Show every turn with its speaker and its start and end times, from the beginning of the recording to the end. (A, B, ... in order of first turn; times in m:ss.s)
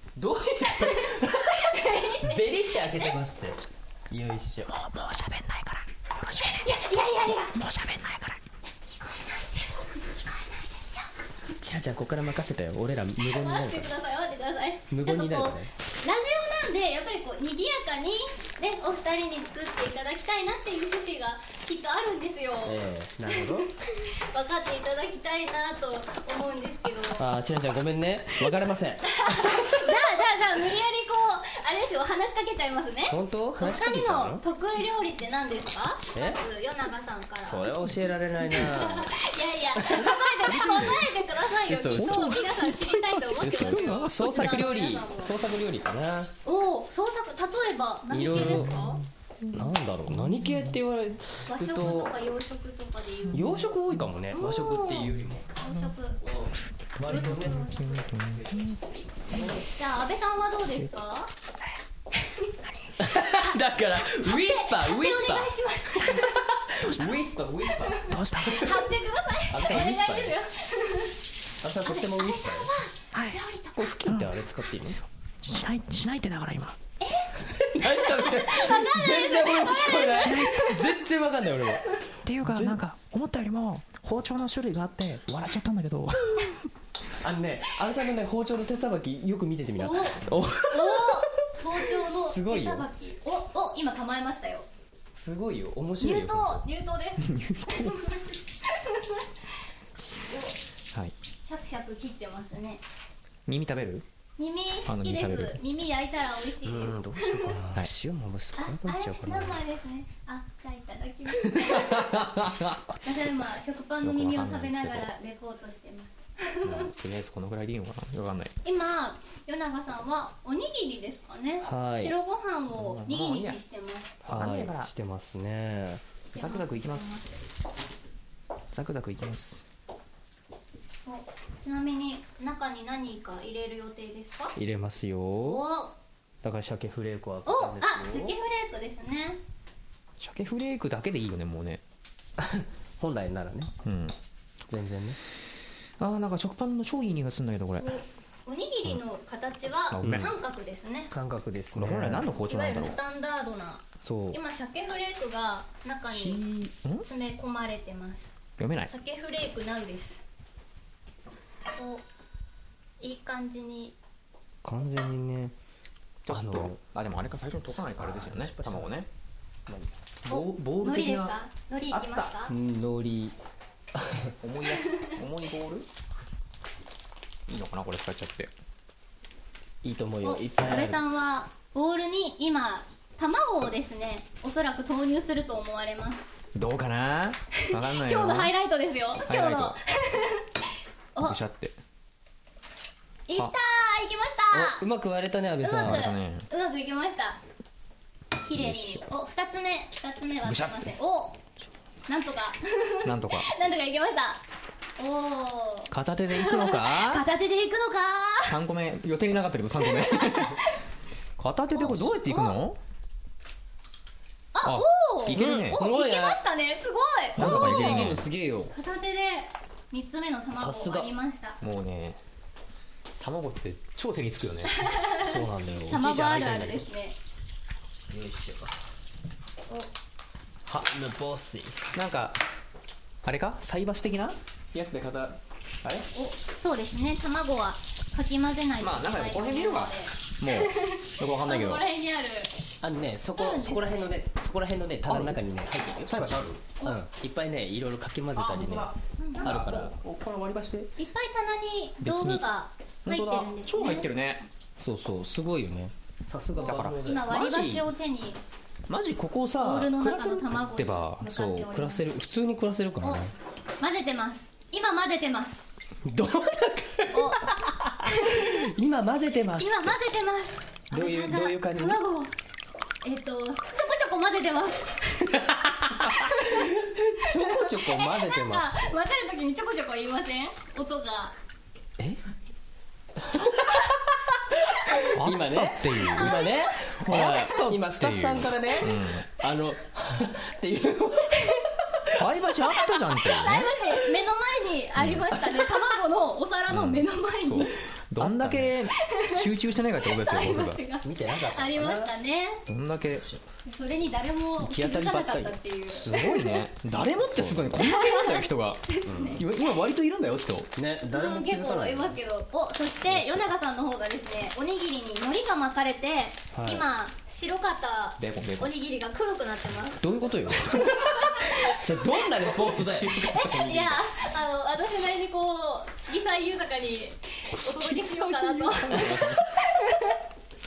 0:00.2-0:05.8 A
0:00.6-0:02.4 B
0:04.9-0:06.7 C
0:06.4-0:07.6 B
0:07.5-0:08.4 C
0:07.6-0:08.1 A
0:08.8-0:11.1 B
0:11.6-0:13.9 A
0:13.3-0:22.8 B
0:14.9-0:15.7 A
0:22.6-0:23.7 A
0:23.3-0:27.3 B
0:27.2-0:29.9 A
0:29.0-0:37.8 B
0:33.1-0:34.4 A
0:37.4-0:39.1 A
0:38.4-0:45.3 B
0:39.8-0:41.0 A
0:40.4-0:41.0 C
0:41.7-0:42.7 A
0:42.0-0:42.4 C
0:43.4-0:46.3 A
0:43.4-0:44.7 C
0:46.4-0:49.0 B
0:48.1-0:48.8 A
0:48.3-0:50.8 C
0:49.5-0:52.1 A
0:51.5-0:53.6 B
0:53.2-0:54.0 C
0:53.3-0:55.5 A
0:54.3-0:56.2 B
0:55.7-0:55.9 C
0:56.2-0:59.6 A
0:57.1-0:58.1 B
0:57.1-0:58.8 C
0:59.3-1:01.3 B
1:02.2-1:02.5 B
1:02.6-1:02.9 C
1:03.0-1:08.7 A
1:03.3-1:03.5 B
1:04.0-1:06.4 B
1:06.8-1:07.2 C
1:07.9-1:11.2 B
1:08.0-1:08.8 C
1:09.5-1:10.4 A
1:11.6-1:12.7 A
1:11.8-1:13.9 B
1:13.1-1:14.3 C
1:13.8-1:15.0 A
1:15.4-1:16.8 C
1:17.0-1:17.3 B
1:17.4-1:22.8 A
1:18.1-1:20.6 B
1:20.1-1:21.0 C
1:22.2-1:26.7 C
1:27.2-1:31.5 A
1:29.8-1:34.7 B
1:32.0-1:32.9 A
1:35.1-1:36.6 A
1:36.0-1:39.5 B
1:37.2-1:38.0 C
1:40.3-1:40.6 B
1:41.4-1:42.8 B
1:43.5-1:44.0 C
1:44.4-1:47.5 B
1:44.8-1:45.6 C
1:46.6-1:49.6 A
1:48.6-1:52.2 B
1:51.4-1:53.0 C
1:53.0-1:56.9 B
1:54.0-1:55.1 C
1:56.6-1:58.5 C
1:58.6-2:04.2 B
2:01.6-2:02.1 A
2:02.7-2:03.6 C
2:04.2-2:04.9 C
2:04.2-2:06.0 A
2:06.2-2:07.4 B
2:06.3-2:07.3 C
2:08.7-2:09.6 C
2:11.0-2:14.5 B
2:14.6-2:15.6 A
2:15.4-2:15.9 B
2:16.4-2:18.4 A
2:17.4-2:19.4 B
2:20.2-2:21.8 C
2:22.4-2:23.7 A
2:23.8-2:24.1 C
2:24.7-2:25.2 A
2:26.0-2:28.0 C
2:27.8-2:31.1 B
2:29.9-2:30.3 C
2:30.0-2:30.3 A
2:31.1-2:32.3 A
2:31.7-2:33.0 C
2:32.5-2:36.4 B
2:34.0-2:34.4 A
2:36.1-2:37.0 C
2:37.0-2:38.3 B
2:38.6-2:38.9 C
2:38.8-2:40.2 B
2:41.7-2:42.0 B
2:43.0-2:43.9 B
2:44.6-2:45.5 A
2:46.3-2:49.1 C
2:46.3-2:46.8 A
2:48.0-2:48.9 A
2:50.2-2:51.4 C
2:50.3-2:52.5 B
2:51.9-2:52.3 C
2:52.5-2:53.3 A
2:53.9-2:54.3 A
2:54.4-2:55.9 C
2:54.7-2:55.1 B
2:57.5-2:58.5 C
2:59.8-3:01.0 A
3:00.2-3:06.3 B
3:06.5-3:08.5 C
3:07.6-3:10.4 B
3:09.2-3:09.8 C
3:11.2-3:11.7 C
3:13.3-3:14.8 B
3:14.5-3:16.0 A
3:15.6-3:17.4 B
3:15.7-3:16.4 C
3:18.4-3:21.4 B
3:18.5-3:19.0 C
3:20.4-3:20.9 C
3:22.1-3:24.4 B
3:23.0-3:23.5 C
3:25.0-3:28.6 B
3:25.9-3:27.2 C
3:28.5-3:30.6 C
3:29.8-3:30.8 B
3:31.4-3:32.8 C
3:31.7-3:32.6 B
3:34.5-3:38.2 B
3:34.6-3:35.8 C
3:35.3-3:36.4 A
3:37.4-3:38.2 C
3:37.4-3:38.7 A
3:38.7-3:41.6 B
3:40.5-3:41.1 A
3:41.6-3:42.2 C
3:43.2-3:44.7 C
3:44.6-3:47.1 B
3:45.2-3:46.2 A
3:45.9-3:46.9 C
3:48.1-3:48.8 A
3:50.7-3:51.8 A
3:51.9-3:52.4 C
3:53.2-3:55.3 C
3:56.1-4:02.5 B
3:58.8-4:01.8 C
4:02.8-4:10.0 A
4:03.4-4:04.1 B
4:05.1-4:05.4 C
4:06.0-4:06.7 C
4:08.3-4:10.9 C
4:09.2-4:09.5 B
4:11.0-4:14.1 B
4:12.0-4:12.4 C
4:13.0-4:14.4 C
4:14.8-4:17.9 A
4:16.6-4:18.4 B
4:16.6-4:17.0 C
4:18.9-4:21.6 C
4:19.6-4:22.1 B
4:21.4-4:23.3 A
4:23.8-4:25.7 B
4:26.0-4:29.9 A
4:27.1-4:27.5 B
4:28.0-4:28.6 B
4:29.6-4:32.3 B
4:30.9-4:32.0 A
4:33.0-4:35.2 B
4:35.3-4:38.8 A
4:36.4-4:36.7 B
4:37.4-4:41.3 B
4:43.2-4:52.2 A
4:45.1-4:49.2 C
4:46.2-4:46.7 B
4:52.1-4:53.7 C
4:53.2-4:57.7 B
4:55.0-4:55.4 C
4:56.7-5:00.8 C
4:58.2-4:58.8 A
4:59.0-4:59.5 B
5:00.0-5:02.6 B
5:01.0-5:02.1 A
5:02.7-5:03.3 C
5:03.6-5:06.6 B
5:04.6-5:08.8 C
5:07.0-5:07.8 A
5:07.8-5:09.4 B
5:09.1-5:09.4 A
5:09.4-5:10.7 C
5:10.8-5:12.2 A
5:11.1-5:20.2 B
5:13.1-5:13.4 C
5:16.5-5:16.8 A
5:18.2-5:18.7 C
5:20.0-5:24.0 A
5:20.8-5:21.6 B
5:22.6-5:23.3 C
5:23.3-5:30.2 B
5:27.6-5:29.4 C
5:28.8-5:29.4 A